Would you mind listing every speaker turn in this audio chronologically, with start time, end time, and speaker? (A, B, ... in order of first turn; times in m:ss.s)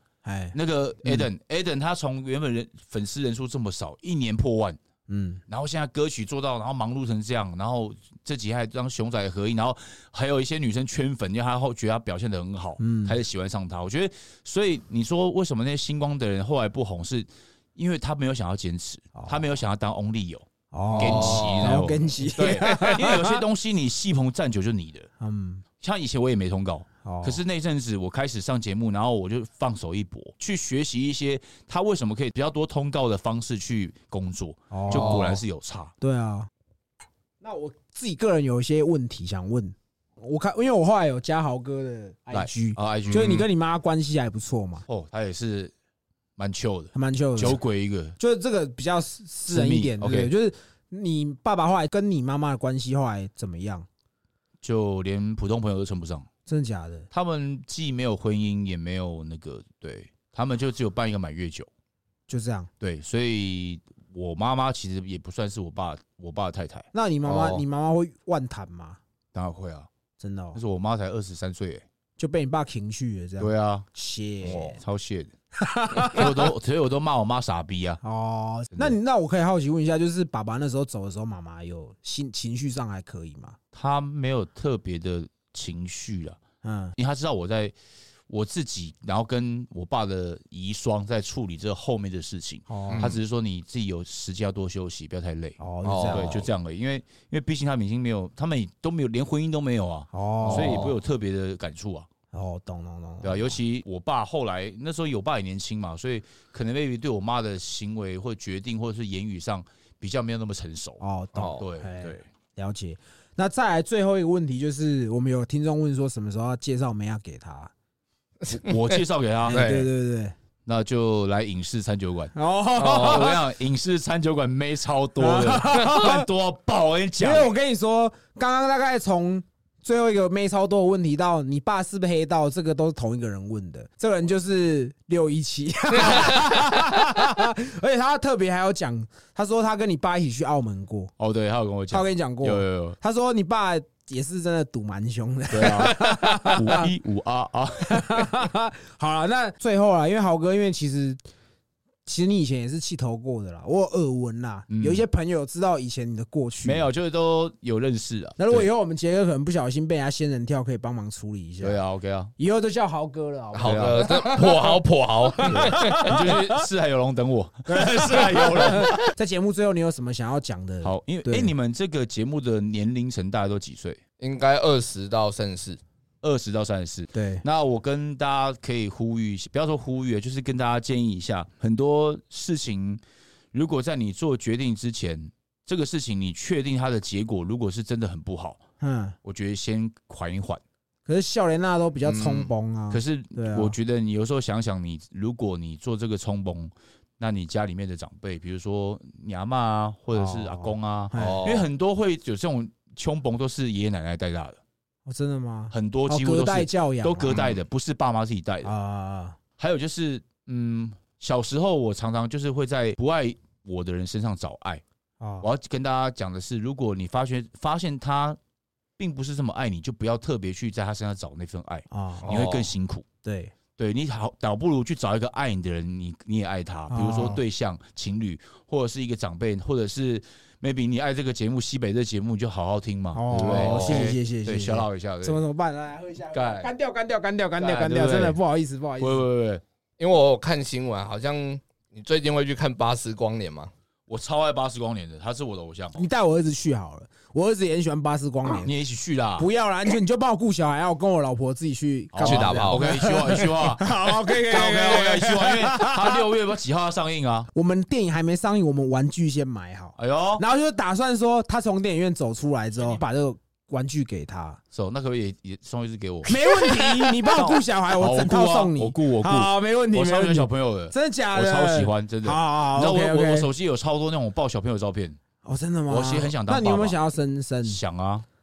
0:00.2-0:01.3 A
0:00.5-0:04.8 B
0:05.1-0:05.4 A
0:05.5-0:25.1 B
0:12.8-0:13.2 A
0:20.7-0:23.4 A
0:20.9-0:21.9 C
0:25.2-0:25.6 A
0:25.8-0:35.9 B
0:27.0-0:27.4 A
0:34.7-0:35.4 A
0:34.9-0:35.4 C
0:36.0-0:36.5 A
0:37.4-0:44.8 A
0:42.3-0:43.5 B
0:43.1-0:43.4 C
0:44.9-0:45.7 B
0:46.4-0:48.2 B
0:46.9-0:47.6 A
0:48.2-0:53.9 A
0:49.5-0:50.3 B
0:54.6-0:56.3 B
0:56.4-0:57.1 A
0:57.1-1:01.7 B
1:02.3-1:02.7 A
1:02.8-1:06.9 B
1:06.9-1:09.0 A
1:07.2-1:07.6 C
1:09.3-1:09.9 B
1:10.2-1:10.6 A
1:10.5-1:11.8 B
1:12.2-1:14.8 A
1:13.4-1:13.8 B
1:14.4-1:14.8 C
1:14.8-1:15.3 B
1:15.6-1:16.5 A
1:16.1-1:18.0 B
1:18.0-1:23.6 A
1:23.7-1:26.4 B
1:26.6-1:26.9 A
1:26.9-1:27.7 B
1:28.3-1:42.1 B
1:32.7-1:33.1 A
1:32.9-1:33.2 C
1:35.6-1:36.5 A
1:35.8-1:36.4 C
1:40.1-1:40.9 A
1:40.4-1:40.9 C
1:42.3-1:43.6 A
1:43.2-1:52.3 B
1:51.0-1:57.7 A
1:58.4-1:59.9 C
1:58.5-1:59.6 B
1:59.4-2:00.3 A
2:00.6-2:07.5 B
2:02.3-2:03.4 A
2:02.8-2:03.3 C
2:05.2-2:06.3 A
2:07.2-2:21.1 A
2:15.9-2:17.0 C
2:21.2-2:23.0 B
2:21.9-2:26.9 A
2:25.5-2:28.3 B
2:27.9-2:31.2 A
2:32.0-2:36.9 A
2:34.7-2:35.0 B
2:36.6-2:38.7 B
2:38.4-2:41.8 A
2:41.6-2:42.3 B
2:42.4-2:44.8 A
2:43.5-2:46.1 C
2:43.6-2:44.1 B
2:45.4-2:46.4 A
2:45.4-2:49.0 B
2:47.7-2:51.5 A
2:50.8-2:54.0 B
2:54.2-2:55.8 C
2:56.2-3:03.0 B
2:57.1-2:57.4 A
3:03.5-3:08.6 B
3:08.8-3:09.2 A
3:09.2-3:10.6 B
3:11.0-3:13.7 A
3:12.0-3:12.5 C
3:12.9-3:24.6 B
3:20.1-3:21.5 A
3:21.2-3:21.6 C
3:25.0-3:27.5 A
3:25.7-3:28.7 B
3:28.6-3:29.4 A
3:29.6-3:34.8 B
3:35.2-3:35.5 A
3:35.4-3:38.4 B
3:39.0-3:43.0 B
3:41.9-3:42.3 A
3:42.2-3:42.7 C
3:43.2-3:43.5 A
3:43.8-3:55.4 B
3:46.9-3:47.4 A
3:53.1-3:59.2 A
3:53.4-3:54.1 C
3:56.3-3:56.7 B
3:57.6-3:58.4 B
3:59.0-3:59.6 B
4:00.0-4:03.7 C
4:04.1-4:06.1 B
4:06.0-4:08.7 A
4:08.6-4:09.5 B
4:09.4-4:16.2 A
4:12.1-4:17.5 B
4:12.2-4:13.0 C
4:17.5-4:24.6 A
4:20.0-4:20.4 B
4:24.7-4:35.2 B
4:26.2-4:33.5 A
4:35.4-4:37.8 A
4:35.9-4:37.0 B
4:37.6-4:38.2 B